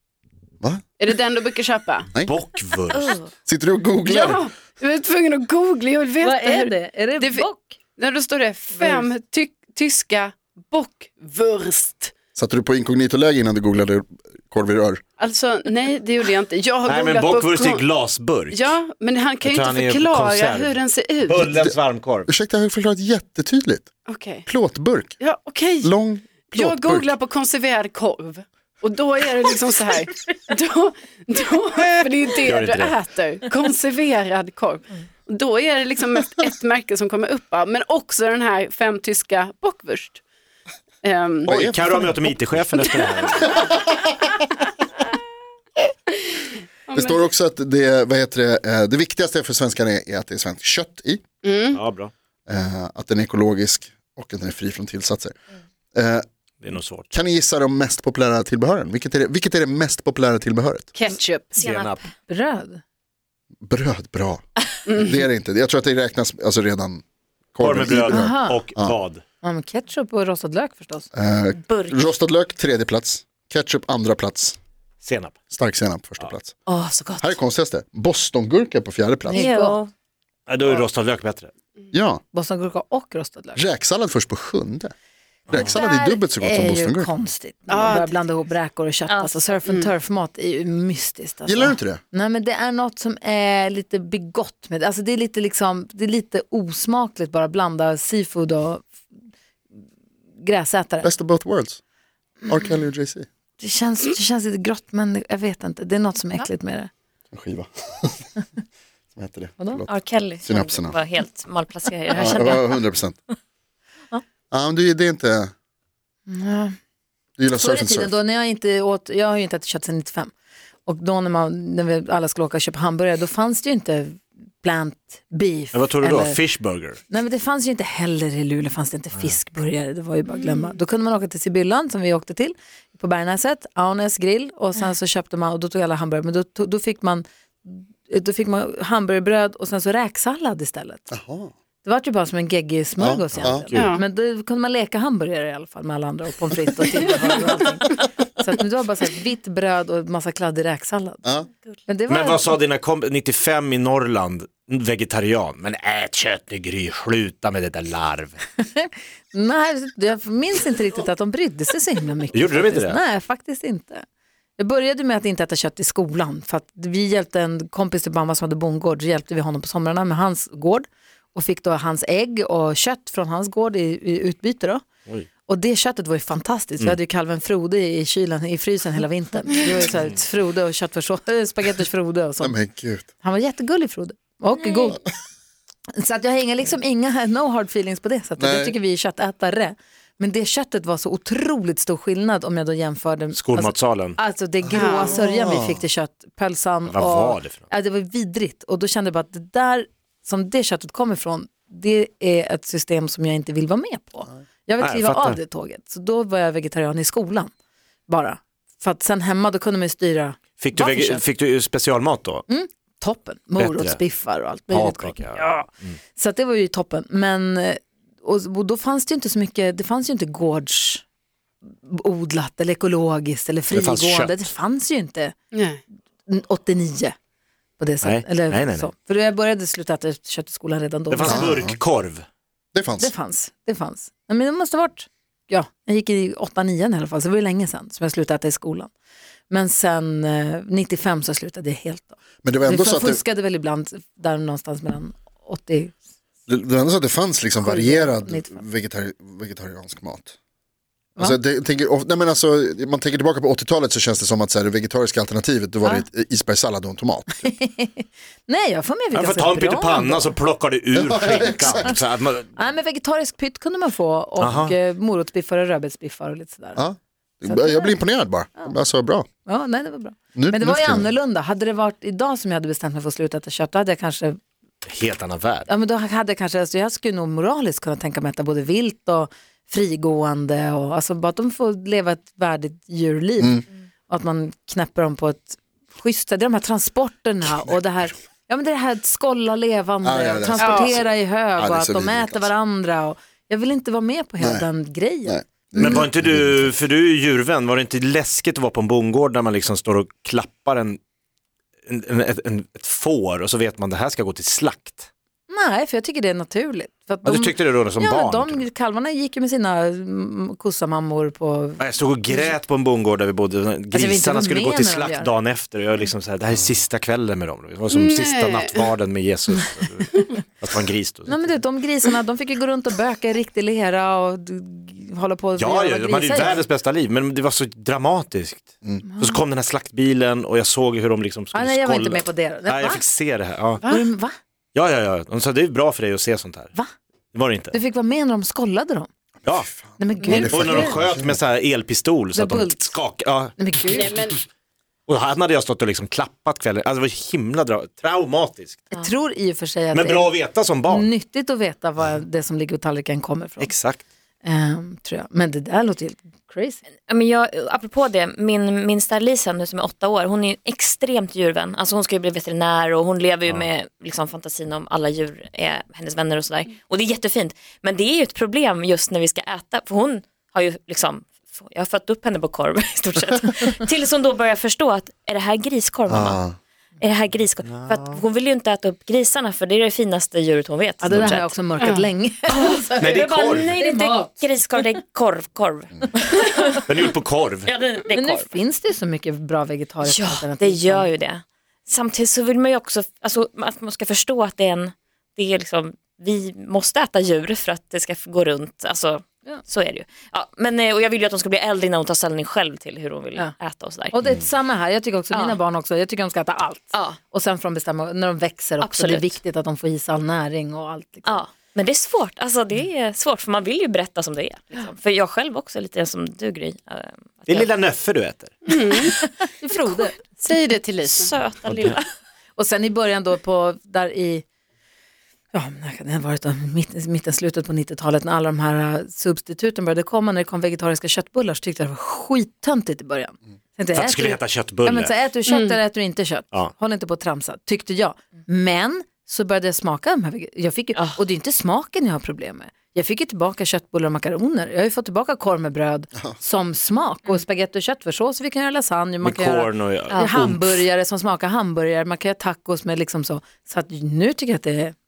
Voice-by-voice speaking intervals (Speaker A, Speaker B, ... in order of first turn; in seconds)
Speaker A: 1.0-2.1, 4.0-12.1, 15.2-17.9, 18.5-21.5, 24.1-24.4, 25.2-25.9, 26.5-40.2, 41.0-41.6, 42.9-43.3, 46.9-47.2, 51.4-51.8, 60.9-61.5, 64.9-65.1, 87.7-88.1, 143.7-144.0, 194.7-195.2, 225.5-225.8, 290.6-290.9, 317.9-318.9, 320.1-320.4, 333.8-334.1, 343.9-344.4, 418.7-419.1, 420.3-421.3, 435.5-435.8
Speaker B: 2.2-3.3, 16.8-18.7, 19.4-22.3, 32.4-33.0, 41.5-43.5, 51.7-52.1, 56.6-57.1, 61.5-62.0, 67.6-69.2, 75.0-75.4, 80.5-81.5, 125.7-127.0, 143.4-143.9, 152.1-158.4, 162.3-163.0, 193.3-194.2, 196.9-197.7, 204.8-205.4, 210.6-212.4, 213.6-214.0, 214.7-216.0, 223.7-224.4, 228.0-228.9, 231.1-232.2, 259.1-262.5, 264.4-264.7, 274.9-275.7, 295.7-301.0, 301.9-305.1, 307.2-308.7, 311.8-321.6, 325.6-333.8, 334.7-336.7, 337.3-337.8, 340.3-344.0, 345.1-348.9, 349.9-351.1, 353.6-354.0, 377.7-378.2, 382.9-383.8, 386.9-387.7, 417.5-418.5, 421.6-421.9, 433.9-435.1, 449.2-450.8
Speaker C: 2.9-3.3, 61.5-62.0, 71.7-72.1, 79.3-79.9, 89.1-89.5, 109.9-112.8, 357.1-376.4, 377.0-388.5, 390.0-404.1, 405.3-405.6, 408.8-409.4, 411.2-417.7, 421.0-422.1
Speaker D: 3.5-4.4, 12.3-15.0, 21.5-21.8, 22.3-23.9, 24.4-25.1, 25.8-27.1, 41.5-42.3, 43.5-44.1, 46.9-51.2, 52.5-55.3, 55.9-56.2, 57.1-60.9, 63.6-67.0, 67.5-69.0, 71.1-74.6, 75.5-76.6, 77.2-79.5, 81.9-82.2, 83.5-84.9, 85.5-87.1, 91.5-92.0, 101.0-101.8, 102.5-103.3, 107.3-108.3, 109.1-111.0, 112.1-113.2, 114.5-115.5, 117.4-118.1, 141.1-141.5, 143.0-143.7, 182.4-183.1, 188.4-188.8, 194.6-195.8, 231.2-231.8, 232.7-233.1, 242.4-243.2, 246.5-250.3, 251.2-257.5, 260.9-262.0, 266.8-269.3, 270.3-271.1, 290.0-291.0, 291.6-292.5, 294.4-294.6, 295.2-296.7, 339.4-341.4, 376.1-376.6
Speaker E: 6.2-7.8, 8.7-9.0, 62.0-62.8, 68.1-68.6, 69.4-71.1, 76.7-77.2, 79.3-79.8, 82.3-83.6, 85.5-98.9, 100.4-101.1, 103.6-106.9, 116.3-116.7, 117.5-120.3, 120.8-126.4, 127.1-141.1, 141.8-151.2, 151.9-152.6, 158.6-164.0, 164.6-174.8, 175.5-182.6, 183.2-185.0, 185.9-207.5, 208.1-211.2, 212.5-221.0, 221.8-225.3, 226.2-227.1, 227.8-231.5, 233.0-238.9, 239.5-245.9, 247.6-248.6, 257.4-260.3, 262.5-266.8, 267.5-268.0, 269.4-274.4, 275.7-296.1, 305.5-312.6, 313.9-315.3, 321.3-326.6, 329.1-329.4, 331.5-333.0, 333.9-334.3, 337.7-339.1, 340.0-340.9, 342.3-342.9, 343.6-344.2, 348.9-350.3, 350.9-353.7, 354.4-356.8, 381.0-384.8, 388.1-391.1, 404.1-411.4, 419.4-420.2, 422.6-424.4, 425.5-454.9